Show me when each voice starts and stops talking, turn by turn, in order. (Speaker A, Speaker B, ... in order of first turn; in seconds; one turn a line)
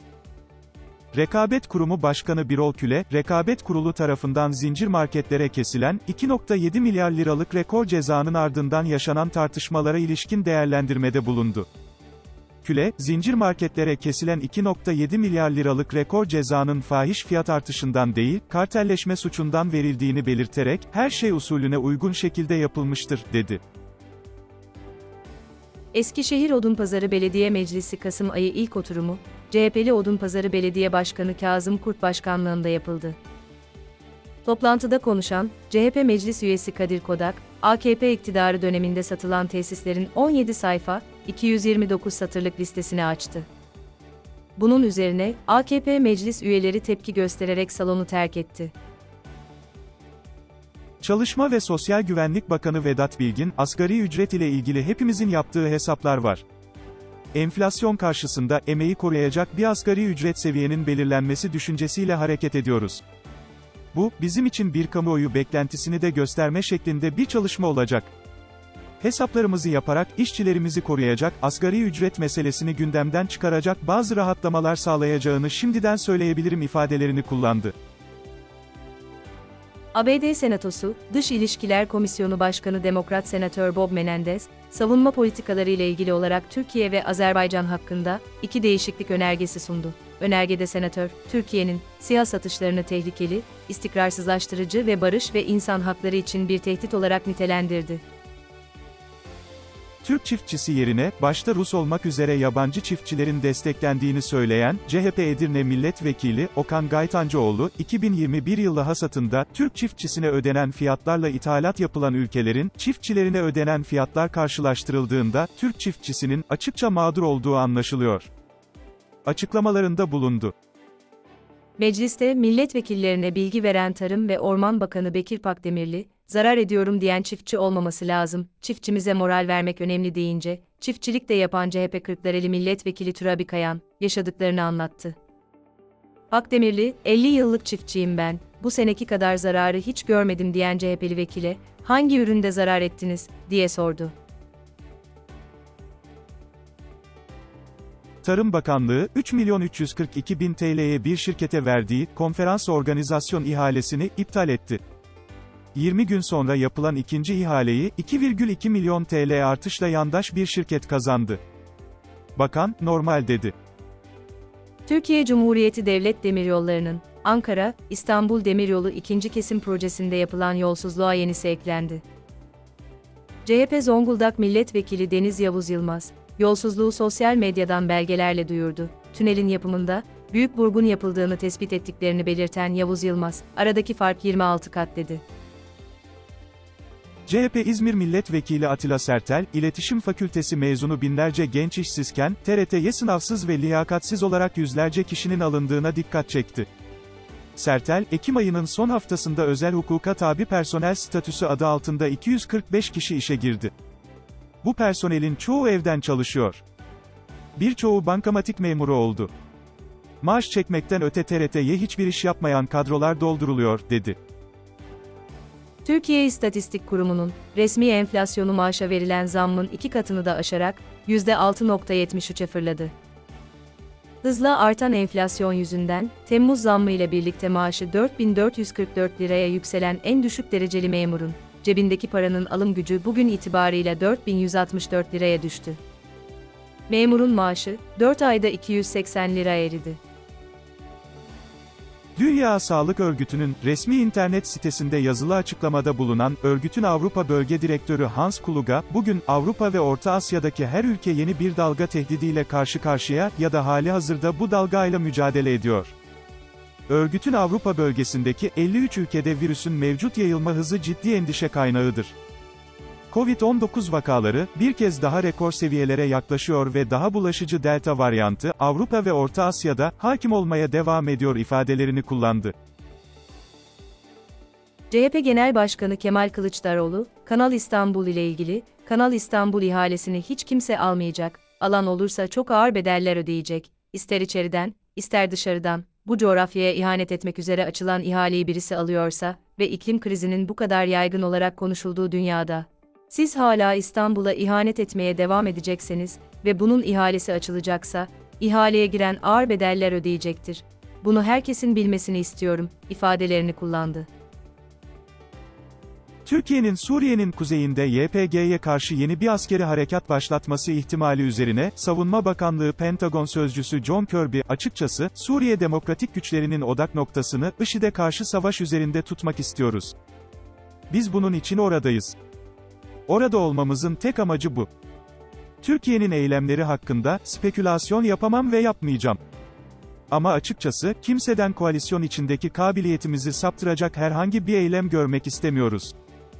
Speaker A: 1.1-11.7
Speaker A: 12.6-23.6
Speaker B: 25.9-33.2
Speaker B: 34.4-43.5
Speaker B: 44.6-48.7
Speaker A: 51.0-56.4
Speaker A: 57.3-63.0
Speaker A: 63.9-68.1
Speaker A: 69.0-77.7
Speaker B: 79.9-98.0
Speaker A: 100.0-118.3
Speaker A: 119.2-120.5
Speaker B: 121.8-135.2
Speaker B: 136.3-144.1
Speaker A: 148.2-154.8
Speaker A: 155.7-161.4
Speaker A: 162.3-163.5
Speaker B: 164.8-172.0
Speaker B: 173.4-185.2
Speaker A: 187.3-196.7
Speaker A: 197.6-203.7
Speaker A: 204.6-206.6
Speaker A: 207.6-209.3
Speaker A: 210.2-214.2
Speaker B: 215.8-222.9
Speaker B: 224.2-235.8
Speaker B: 236.9-240.0
Speaker A: 242.2-255.9
Speaker A: 256.9-262.1
Speaker A: 263.1-272.5
Speaker B: 274.9-304.1
Speaker A: 306.2-319.9
Speaker A: 320.9-322.1
Speaker A: 323.1-324.7
Speaker A: 325.6-329.2
Speaker A: 330.1-335.9